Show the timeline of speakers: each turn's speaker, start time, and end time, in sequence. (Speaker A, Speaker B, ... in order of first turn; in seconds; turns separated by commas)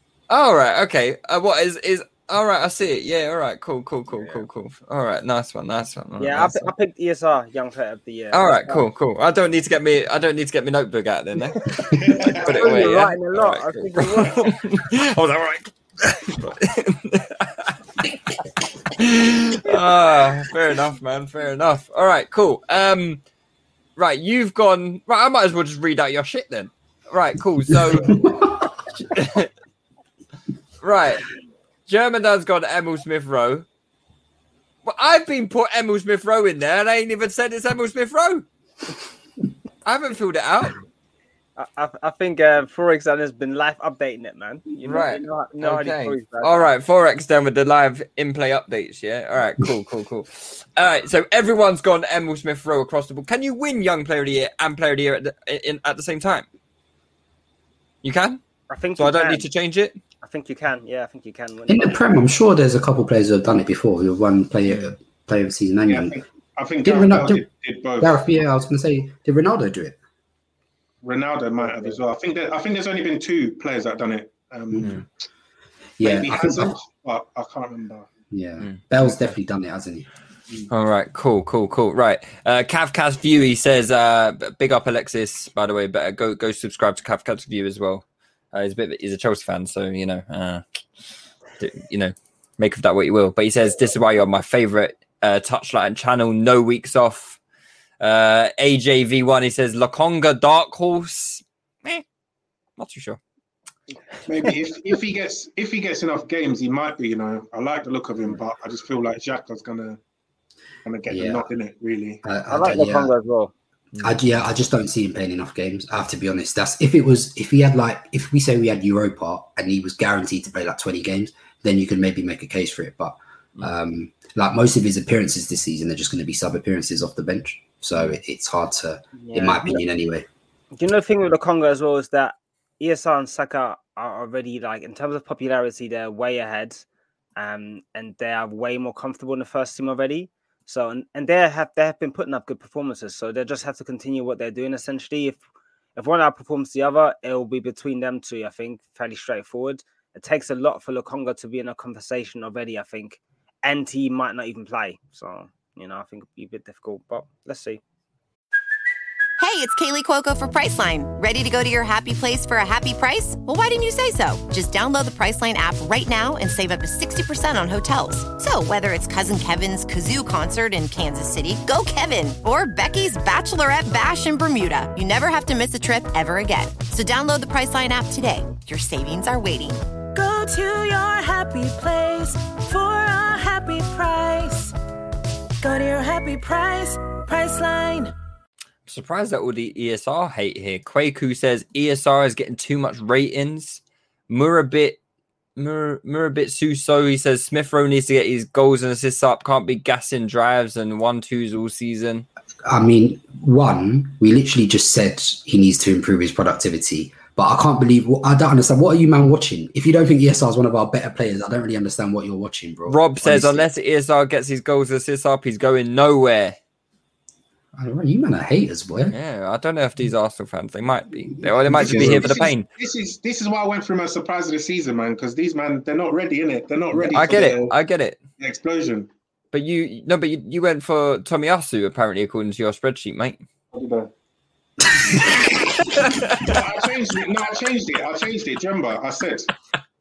Speaker A: 0.3-6.7, Speaker B: 4.2-4.4, Speaker B: 6.2-8.8, Speaker A: 8.3-11.7, Speaker B: 11.6-14.5, Speaker C: 11.9-12.9, Speaker A: 12.4-18.1, Speaker A: 18.9-23.2, Speaker A: 24.0-28.6, Speaker D: 28.1-28.4, Speaker A: 29.1-29.5, Speaker A: 30.8-31.3, Speaker A: 31.9-33.6, Speaker A: 34.9-38.4, Speaker A: 39.8-40.8, Speaker B: 41.6-46.7, Speaker A: 44.8-56.5, Speaker A: 58.0-58.4, Speaker B: 58.7-59.4, Speaker A: 59.0-60.0, Speaker B: 60.2-62.2, Speaker D: 61.7-66.1, Speaker A: 64.7-64.9, Speaker C: 65.9-68.2, Speaker D: 66.8-67.5, Speaker D: 68.0-70.0, Speaker C: 71.0-75.0, Speaker D: 74.7-75.0, Speaker D: 76.0-76.8, Speaker C: 76.0-78.1, Speaker D: 78.3-80.1, Speaker A: 78.6-79.3, Speaker A: 80.7-90.6, Speaker A: 91.6-97.4, Speaker A: 98.0-102.0, Speaker A: 102.8-103.2, Speaker C: 104.3-110.0, Speaker C: 110.8-112.2, Speaker D: 111.1-111.5, Speaker D: 112.2-113.1, Speaker B: 112.5-113.5, Speaker A: 113.9-114.2, Speaker D: 114.0-130.3, Speaker B: 129.2-129.8, Speaker B: 130.8-136.8, Speaker B: 137.3-145.4, Speaker B: 145.9-157.8, Speaker E: 159.4-179.8, Speaker F: 180.1-184.7, Speaker F: 185.6-188.1, Speaker A: 188.9-195.0, Speaker A: 195.6-202.2, Speaker D: 202.7-213.7, Speaker A: 212.9-216.6, Speaker D: 217.8-219.2, Speaker A: 219.1-222.7, Speaker D: 221.4-222.4, Speaker C: 221.7-227.7, Speaker A: 227.1-228.2, Speaker C: 228.4-229.1, Speaker A: 229.5-233.4, Speaker C: 233.7-234.1, Speaker A: 236.0-236.5, Speaker C: 236.2-239.5